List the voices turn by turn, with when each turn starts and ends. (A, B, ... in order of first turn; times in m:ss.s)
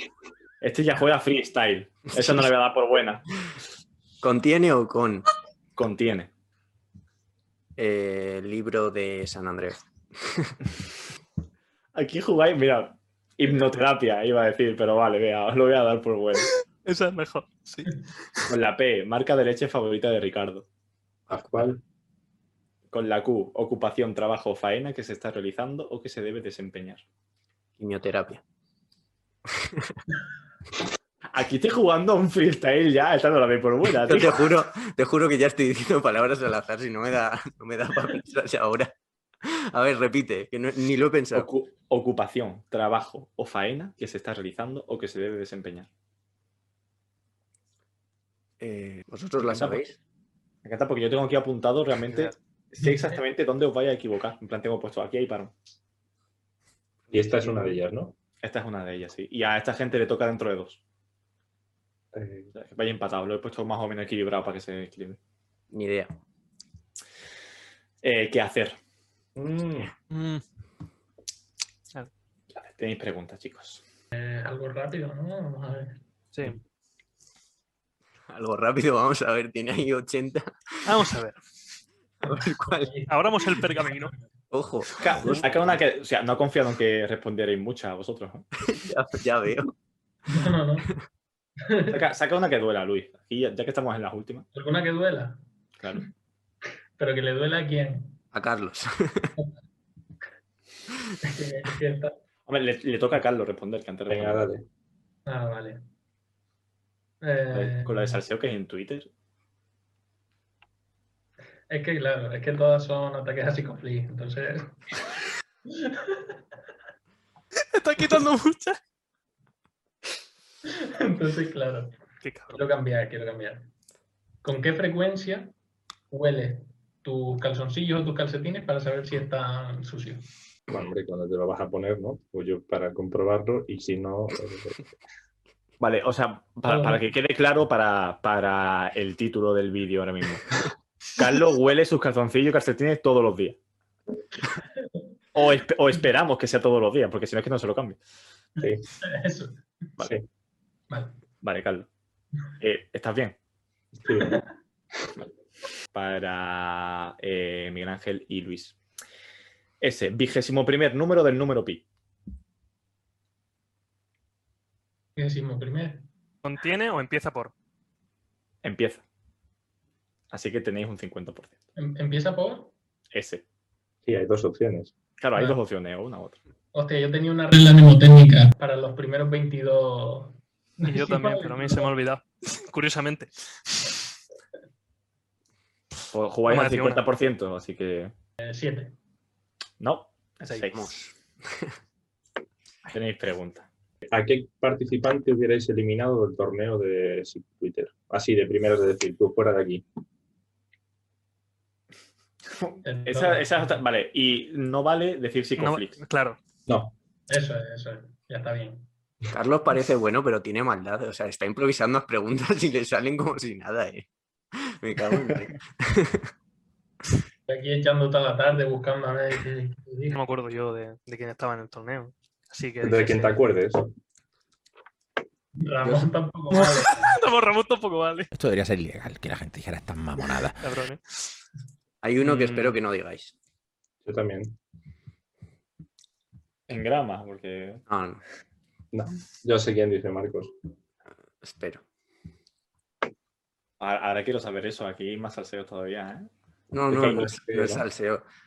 0:00.6-0:03.2 A
0:02.1-0:02.5 B
0:04.2-0:05.3 B
0:05.8-0:06.3 A
0:07.8-0:10.6 B
0:11.9-0:16.5 A
0:16.8-0:18.4 C
0:18.5-0:20.6 A
0:21.3-0:21.8 D
0:22.9-0:27.0 A
0:27.8-0:28.4 B
0:29.6-0:29.9 B
0:31.3-0:34.5 A
0:34.0-0:41.5 B
0:41.3-0:45.9 A
0:48.6-0:50.0 B
0:49.4-0:49.8 A
0:50.6-0:55.5 A
0:57.1-0:58.1 D
0:58.4-1:00.8 A
1:02.1-1:02.5 D
1:02.5-1:05.2 A
1:05.7-1:06.1 B
1:08.0-1:08.8 A
1:09.4-1:09.9 D
1:10.1-1:10.4 C
1:12.6-1:13.8 A
1:14.1-1:16.0 E
1:18.3-1:20.5 B
1:20.8-1:21.4 C
1:22.2-1:23.0 B
1:22.8-1:23.1 E
1:23.1-1:24.1 C
1:24.5-1:25.5 B
1:25.0-1:28.4 A
1:28.7-1:29.7 B
1:30.3-1:30.9 E
1:31.6-1:32.0 E
1:31.9-1:34.4 A
1:34.5-1:35.4 E
1:37.0-1:38.2 E
1:38.3-1:39.3 B
1:41.2-1:42.2 E
1:42.4-1:44.5 A
1:44.1-1:44.6 D
1:45.2-1:45.8 E
1:47.2-1:48.2 E
1:47.5-1:49.1 A
1:51.7-1:54.8 E
1:55.7-1:56.4 E
1:57.6-1:58.8 C
2:00.7-2:02.0 E
2:02.2-2:02.6 C
2:02.5-2:03.7 E
2:04.4-2:05.5 E
2:06.1-2:10.2 E
2:10.7-2:14.8 D
2:15.8-2:20.4 A
2:16.7-2:17.0 E
2:21.2-2:23.6 A
2:24.4-2:25.0 E
2:25.3-2:28.0 A
2:28.6-2:29.6 E
2:30.0-2:30.2 D
2:30.9-2:31.2 E
2:31.4-2:31.9 A
2:32.6-2:33.4 A
2:34.0-2:34.4 D
2:34.1-2:34.5 E
2:35.9-2:38.8 A
2:39.8-2:41.8 A
2:45.2-2:46.1 E
2:46.4-2:47.5 C
2:48.6-2:49.0 A
2:50.3-2:51.6 A
2:51.8-2:52.7 E
2:53.1-2:53.4 A
2:54.0-2:54.9 D
2:55.2-2:56.4 A
2:56.7-3:01.9 E
3:00.8-3:03.9 C
3:06.1-3:08.1 A
3:06.5-3:07.0 C
3:08.4-3:09.0 E
3:09.8-3:10.9 A
3:10.7-3:11.7 B
3:12.9-3:13.7 A
3:14.1-3:19.8 D
3:22.5-3:26.0 A
3:22.8-3:23.8 E
3:25.6-3:26.4 C
3:26.7-3:26.9 D
3:27.3-3:28.9 E
3:29.3-3:34.1 B
3:34.6-3:36.3 B
3:37.5-3:40.2 E
3:40.1-3:43.3 C
3:42.8-3:43.9 D
3:45.6-3:47.2 E
3:46.5-3:48.3 C
3:48.4-3:50.5 F
3:50.6-3:51.2 C
3:52.0-3:53.3 B
3:52.2-3:52.8 C
3:54.0-3:54.5 D
3:56.7-3:57.8 A
3:57.9-3:58.2 B
3:58.9-4:00.5 D
4:01.4-4:01.8 B
4:03.8-4:06.3 A
4:06.7-4:08.2 B
4:06.9-4:07.8 D